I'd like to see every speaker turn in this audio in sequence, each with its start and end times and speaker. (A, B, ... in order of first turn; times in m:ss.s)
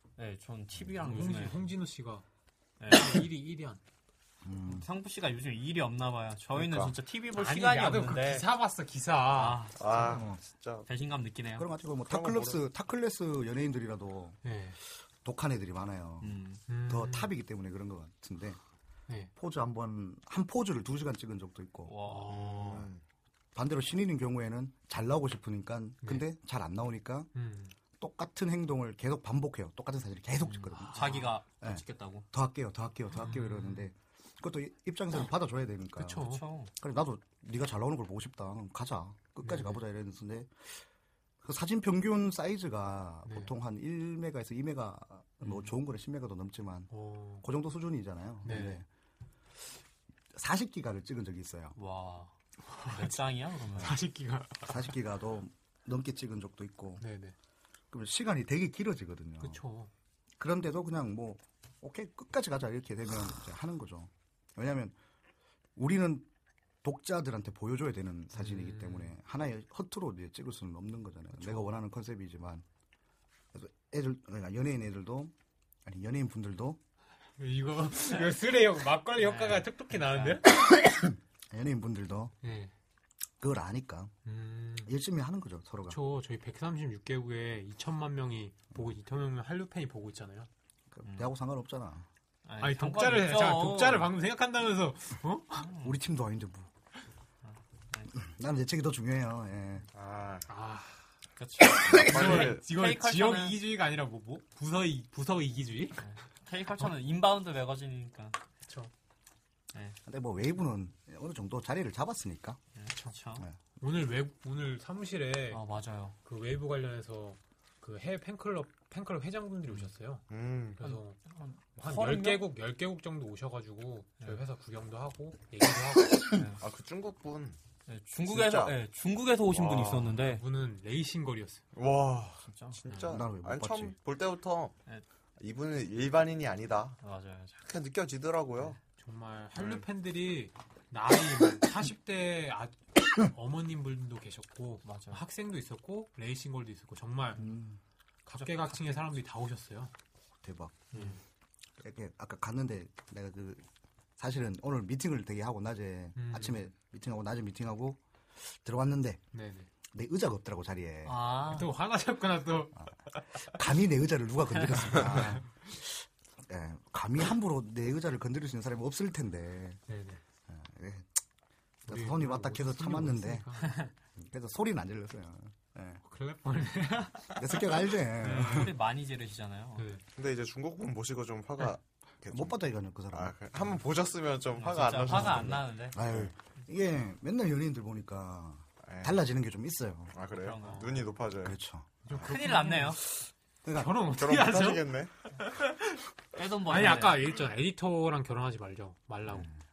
0:00.2-0:01.6 A
0:01.0-0:02.2 B
0:02.8-0:03.2 A
0:02.9-0:03.8 B
0:04.4-0:04.8 C
0:04.7-0:08.5 A
0:06.5-0:06.9 D
0:07.3-0:09.6 B
0:09.3-0:10.2 A
0:09.8-0:10.8 D
0:10.1-0:10.4 C
0:10.8-0:11.7 A
0:11.6-0:14.4 C
0:12.0-0:12.6 D
0:14.4-0:14.8 B
0:15.2-0:18.6 C
0:16.2-0:16.6 A
0:16.7-0:17.3 B
0:19.3-0:22.0 C
0:21.8-0:22.5 A
0:22.1-0:22.8 B
0:22.3-0:23.0 D
0:23.5-0:27.3 C
0:26.0-0:26.3 B
0:27.3-0:27.8 B
0:28.0-0:40.8 C
0:30.4-0:32.2 A
0:30.8-0:31.4 B
0:33.1-0:33.9 B
0:36.0-0:36.4 B
0:36.2-0:36.7 A
0:39.4-0:39.8 B
0:41.4-0:48.8 C
0:43.2-0:43.5 B
0:46.9-0:47.4 B
0:48.4-0:48.8 B
0:50.3-0:51.8 C
0:51.8-0:52.3 A
0:52.7-0:53.2 B
0:52.8-0:54.0 A
0:53.7-0:54.8 B
0:54.6-0:57.0 C
0:57.0-0:57.3 B
0:57.9-0:59.6 C
0:59.4-0:59.9 B
1:00.4-1:05.0 C
1:05.8-1:06.3 C
1:06.8-1:12.6 C
1:08.4-1:09.1 B
1:11.4-1:11.7 B
1:13.5-1:15.3 C
1:15.8-1:16.8 C
1:17.4-1:20.5 B
1:19.2-1:20.4 A
1:20.7-1:22.3 C
1:22.4-1:22.7 B
1:23.4-1:24.1 C
1:24.2-1:24.9 B
1:24.8-1:26.0 C
1:25.9-1:30.5 B
1:30.9-1:32.1 C
1:31.0-1:31.3 A
1:32.4-1:34.1 A
1:32.6-1:35.7 B
1:35.6-1:35.9 A
1:35.8-1:36.7 C
1:37.4-1:38.1 A
1:38.1-1:39.9 C
1:39.9-1:40.5 D
1:40.5-1:41.1 B
1:41.4-1:43.6 A
1:41.8-1:46.0 B
1:41.9-1:42.7 D
1:46.0-1:48.4 A
1:50.0-1:52.6 C
1:52.8-1:53.5 A
1:52.9-1:53.2 B
1:53.8-1:55.6 B
1:55.5-1:56.2 A
1:56.2-2:00.2 B
2:00.3-2:00.8 D
2:00.8-2:01.2 B
2:00.8-2:02.5 A
2:01.7-2:06.4 B
2:06.3-2:06.6 A
2:06.6-2:07.6 D
2:07.9-2:10.4 A
2:08.2-2:08.8 D
2:09.5-2:10.2 D
2:10.2-2:11.6 B
2:11.7-2:14.7 D
2:12.5-2:12.8 A
2:12.9-2:13.2 B
2:13.1-2:14.0 C
2:15.4-2:17.0 D
2:17.0-2:17.6 A
2:17.6-2:18.8 D
2:18.9-2:27.5 B
2:19.6-2:19.8 D
2:24.8-2:25.2 A
2:27.4-2:27.8 C
2:28.2-2:29.9 B
2:30.4-2:30.9 C
2:30.9-2:31.2 B
2:31.8-2:33.6 C
2:34.2-2:39.2 C
2:36.2-2:36.6 B
2:39.3-2:39.7 B
2:39.9-2:41.2 C
2:41.0-2:41.7 A
2:41.4-2:42.7 B
2:42.7-2:49.8 C
2:49.9-2:50.2 B
2:50.5-2:51.1 C
2:51.8-2:53.5 C
2:51.9-2:53.8 B
2:54.2-2:56.0 C
2:56.0-2:58.7 B
2:57.4-2:58.7 C
2:58.2-2:59.9 A
2:59.8-3:00.0 B
3:00.1-3:02.6 D
3:02.3-3:03.8 C
3:03.1-3:06.3 D
3:04.6-3:06.0 A
3:05.1-3:10.1 C
3:08.8-3:09.2 D
3:10.1-3:11.6 D
3:10.3-3:11.1 A
3:10.6-3:11.1 B
3:11.4-3:12.0 C
3:12.0-3:13.0 B
3:12.3-3:13.0 A
3:13.6-3:13.9 C
3:13.7-3:16.0 B
3:14.1-3:15.1 D
3:16.4-3:17.3 A
3:16.6-3:19.5 B